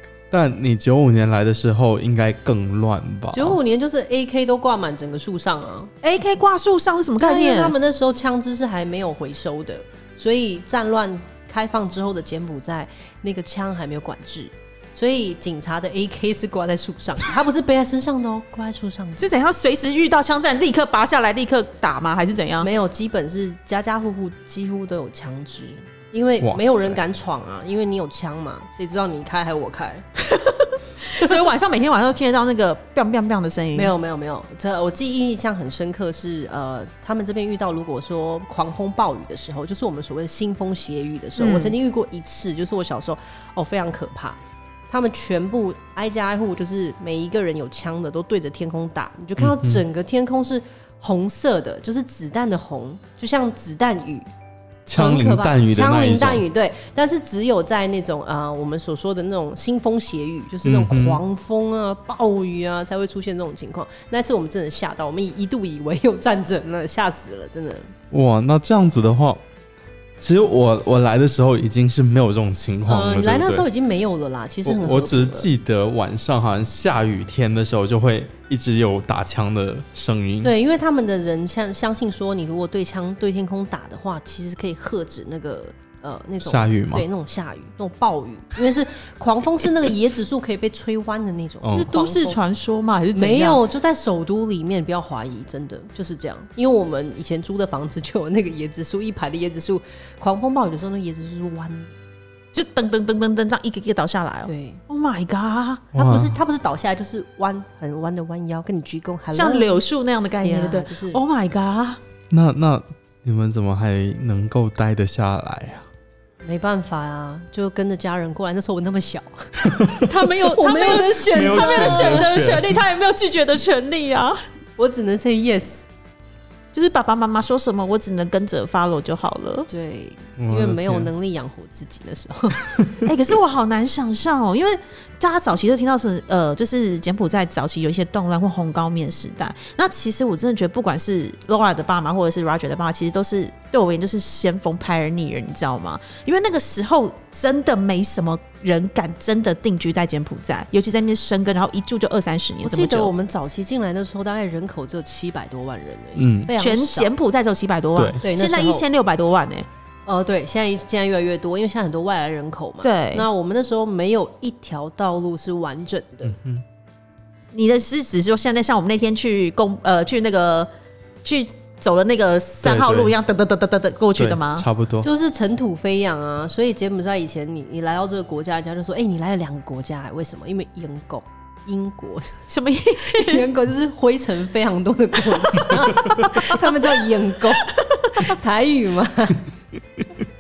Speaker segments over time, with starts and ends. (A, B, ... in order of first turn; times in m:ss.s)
0:00.3-0:03.6 A
0:03.3-0:05.9 B
0:06.0-0:07.8 C
0:07.2-0:19.3 B
0:19.2-0:22.7 C
0:22.6-0:30.0 B
0:26.4-0:27.0 A
0:30.2-0:33.9 C
0:33.7-0:54.3 B
0:41.4-0:41.8 C
0:49.4-0:49.8 A
0:54.9-0:56.4 A
0:54.9-1:07.9 B
1:00.6-1:01.2 A
1:08.1-1:09.4 A
1:10.2-1:13.7 A
1:12.9-1:15.5 B
1:14.6-1:20.5 A
1:20.4-1:32.4 B
1:26.4-1:27.0 A
1:31.6-1:31.9 A
1:31.8-1:33.6 C
1:33.1-1:41.9 B
1:42.5-1:45.8 C
1:44.4-1:44.8 B
1:45.9-1:46.4 A
1:46.0-1:49.8 B
1:49.3-1:52.0 C
1:50.4-1:51.2 B
1:52.3-1:55.9 A
1:56.4-1:59.8 B
2:00.0-2:04.4 C
2:00.4-2:02.4 B
2:01.3-2:02.8 A
2:04.8-2:05.9 B
2:06.7-2:09.7 C
2:09.7-2:12.8 B
2:10.4-2:11.1 A
2:13.0-2:33.1 C
2:32.6-2:37.1 B
2:36.2-2:36.5 A
2:36.5-2:39.7 C
2:38.2-2:38.9 B
2:40.1-2:46.4 B
2:42.8-2:43.3 C
2:46.3-2:46.6 A
2:47.5-2:50.7 C
2:51.2-2:54.7 C
2:52.6-2:53.1 A
2:54.2-2:55.1 A
2:55.0-3:02.5 B
3:02.5-3:03.5 C
3:03.1-3:09.4 B
3:05.5-3:06.6 C